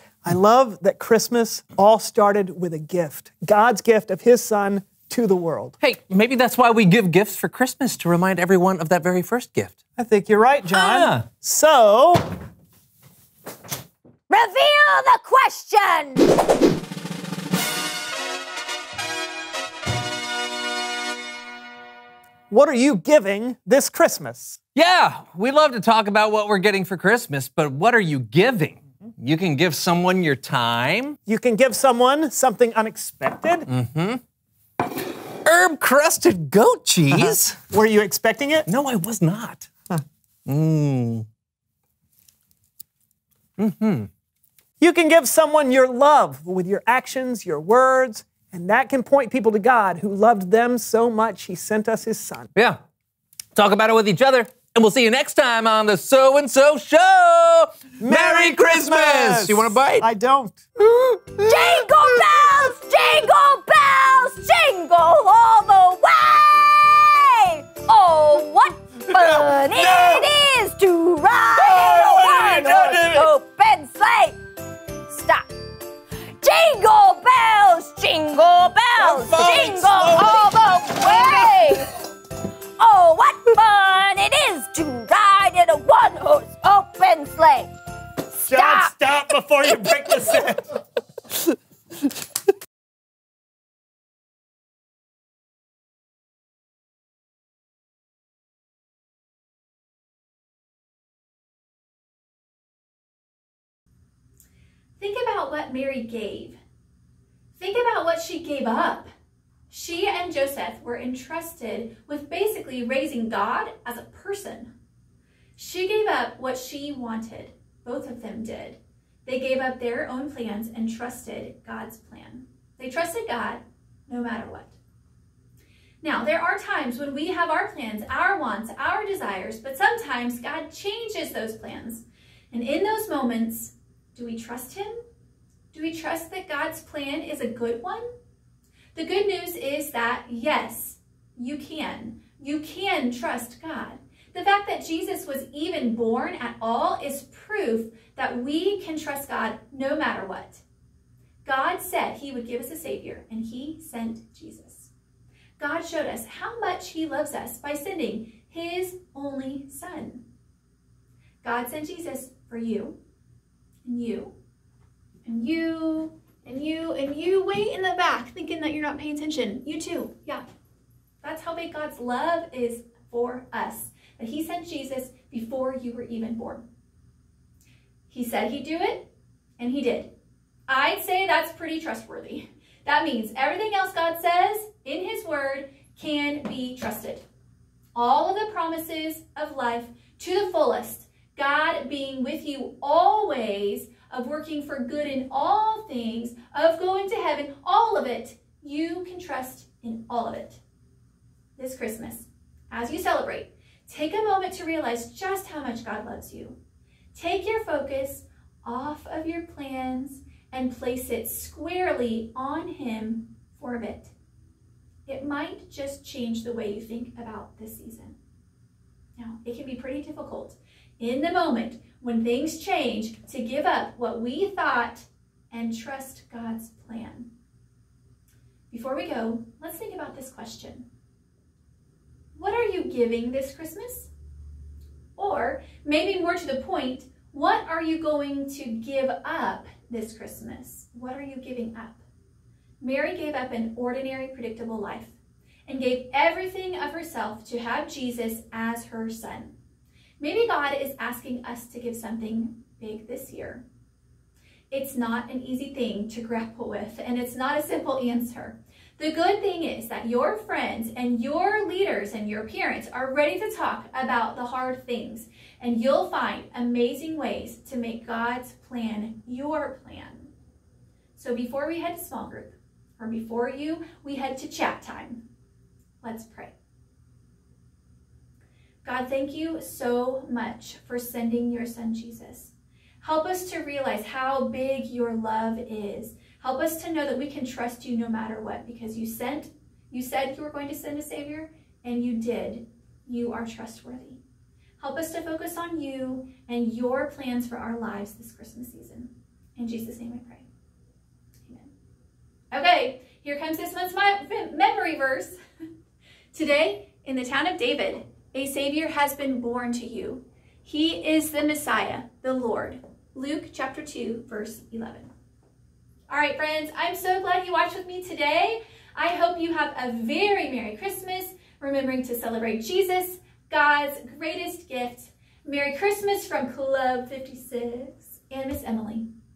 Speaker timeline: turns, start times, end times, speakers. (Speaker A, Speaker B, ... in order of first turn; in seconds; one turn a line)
Speaker A: 0.2-5.8
Speaker B: 5.8-9.8
Speaker A: 10.0-12.2
Speaker B: 10.7-11.2
Speaker C: 14.3-16.3
Speaker A: 22.5-24.6
Speaker B: 24.7-31.2
Speaker A: 31.3-33.6
Speaker B: 33.7-34.2
Speaker B: 35.4-37.5
Speaker A: 37.1-38.7
Speaker B: 38.7-39.7
Speaker B: 40.5-41.2
Speaker B: 43.6-44.1
Speaker A: 44.8-52.5
Speaker B: 53.5-60.1
Speaker A: 58.0-60.6
Speaker B: 60.8-61.3
Speaker C: 61.5-74.4
Speaker B: 69.1-70.2
Speaker B: 71.5-73.3
Speaker C: 75.1-75.5
Speaker C: 76.4-81.9
Speaker B: 79.0-80.4
Speaker C: 82.8-87.7
Speaker C: 88.3-89.0
Speaker A: 88.5-90.7
Speaker D: 105.0-106.6
Speaker D: 107.5-109.1
Speaker D: 109.7-114.7
Speaker D: 115.5-124.8
Speaker D: 126.0-135.0
Speaker D: 135.7-138.1
Speaker D: 138.9-150.6
Speaker D: 151.4-154.9
Speaker D: 155.6-160.2
Speaker D: 161.4-163.0
Speaker D: 163.8-164.3
Speaker D: 165.2-170.4
Speaker D: 171.2-176.6
Speaker D: 178.1-180.1
Speaker D: 180.7-187.2
Speaker D: 187.9-200.6
Speaker D: 201.6-206.6
Speaker D: 207.1-214.1
Speaker D: 215.1-218.2
Speaker D: 219.2-227.3
Speaker D: 228.7-230.8
Speaker D: 232.3-234.1
Speaker D: 235.2-242.0
Speaker D: 242.8-245.1
Speaker D: 245.7-249.5
Speaker D: 250.2-253.6
Speaker D: 254.7-270.3
Speaker D: 271.1-275.2
Speaker D: 276.0-276.5
Speaker D: 278.8-294.2
Speaker D: 294.8-300.4
Speaker D: 301.4-301.7
Speaker D: 302.5-305.4
Speaker D: 306.3-315.1
Speaker D: 316.1-329.1